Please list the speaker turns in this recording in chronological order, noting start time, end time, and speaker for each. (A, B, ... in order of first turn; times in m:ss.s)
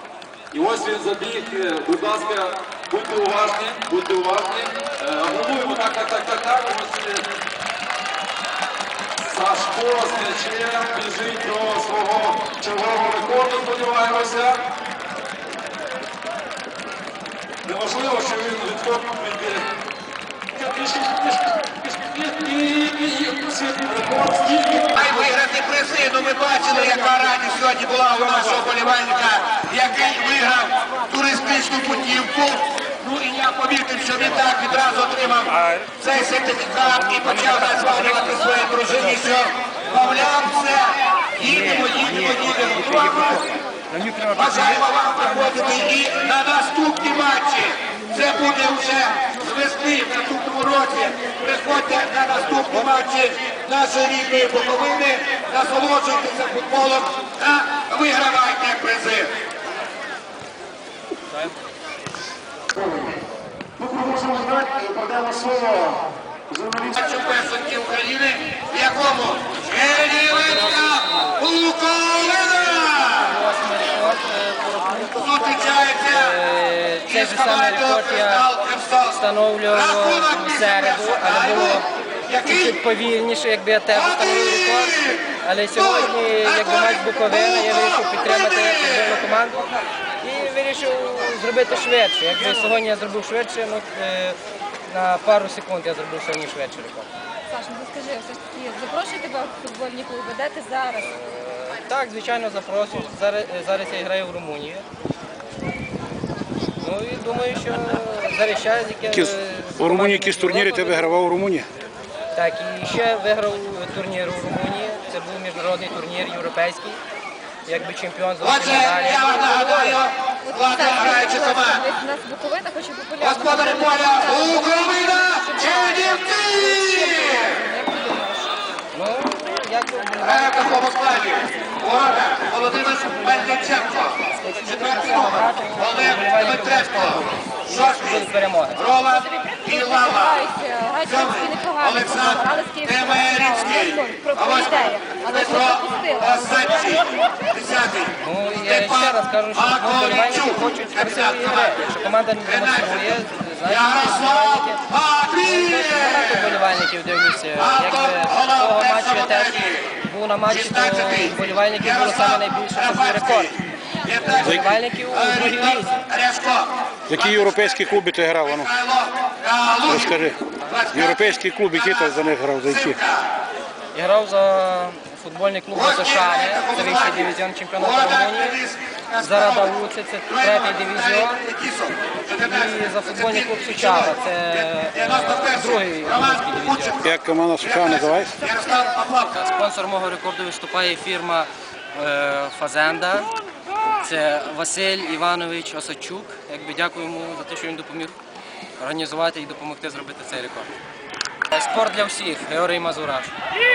0:00.5-0:07.3 A
0:09.2-0:14.6 A
0:17.6-0:19.7 A
0:20.5-0:25.2 A
0:25.0-0:43.6 B
0:41.5-0:43.4 C
0:43.9-0:44.8 C
0:44.3-0:59.3 B
1:03.8-1:07.0 A
1:06.9-1:13.4 B
1:10.0-1:11.4 C
1:12.8-1:15.4 C
1:15.1-1:16.4 B
1:16.0-1:18.5 C
1:17.1-1:19.2 B
1:19.0-1:21.8 C
1:19.7-1:22.8 B
1:22.4-1:37.1 C
1:23.9-1:25.2 B
1:25.8-1:29.2 B
1:37.5-1:41.1 D
1:41.0-1:44.8 C
1:46.8-1:51.1 C
1:49.1-1:51.7 E
1:52.3-1:57.0 C
1:57.6-2:00.0 C
1:58.4-2:01.8 B
2:00.5-2:08.5 D
2:03.2-2:07.6 B
2:08.9-2:10.9 C
2:10.2-2:20.5 B
2:12.7-2:18.8 C
2:19.1-2:27.1 D
2:21.0-2:31.8 B
2:28.2-2:34.8 C
2:32.4-2:36.6 B
2:35.4-2:43.5 C
2:37.6-2:39.9 B
2:40.5-2:47.5 B
2:44.2-2:46.1 C
2:44.4-2:44.7 E
2:47.1-2:48.7 E
2:48.5-2:50.2 B
2:49.8-2:50.4 E
2:50.4-2:50.8 C
2:50.7-2:53.3 B
2:50.9-2:53.0 E
2:53.9-2:58.6 C
2:55.7-2:59.7 B
2:59.2-3:01.5 C
3:00.3-3:09.4 B
3:02.3-3:07.0 C
3:07.0-3:08.4 E
3:09.3-3:13.3 C
3:14.0-3:18.2 C
3:18.8-3:20.7 C
3:21.5-3:23.3 C